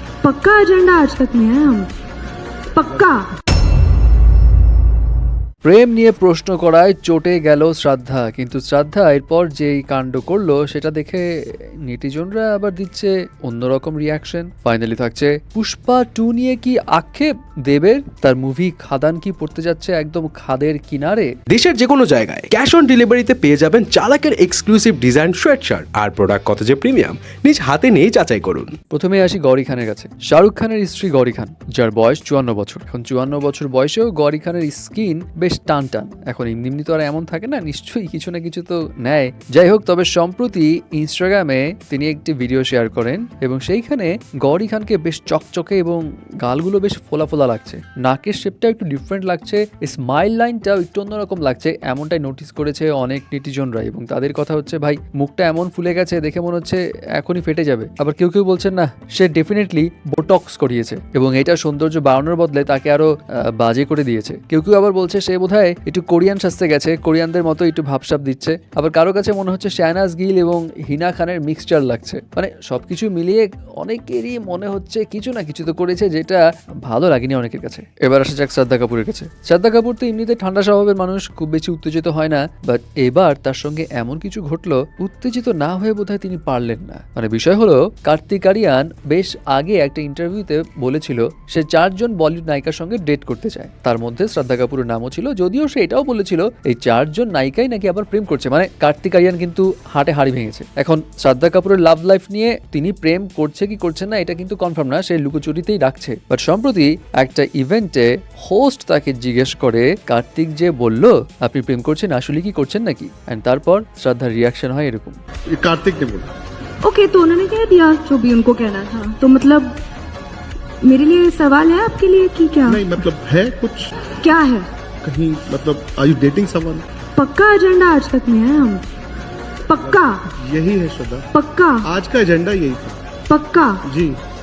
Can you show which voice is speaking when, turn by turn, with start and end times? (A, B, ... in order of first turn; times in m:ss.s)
0:00.2-0:01.9 A
0:02.7-0:03.3 A
0:05.6-0:21.3 B
0:21.5-0:28.8 C
0:28.9-1:55.2 B
1:55.5-1:56.3 D
1:56.8-1:59.8 A
2:00.8-2:03.0 A
2:02.7-2:03.9 D
2:04.2-2:04.7 A
2:05.0-2:06.8 D
2:07.2-2:08.8 A
2:09.7-2:10.3 A
2:09.8-2:11.3 D
2:11.3-2:11.9 A
2:11.8-2:13.0 D
2:13.3-2:13.8 A
2:13.8-2:14.2 D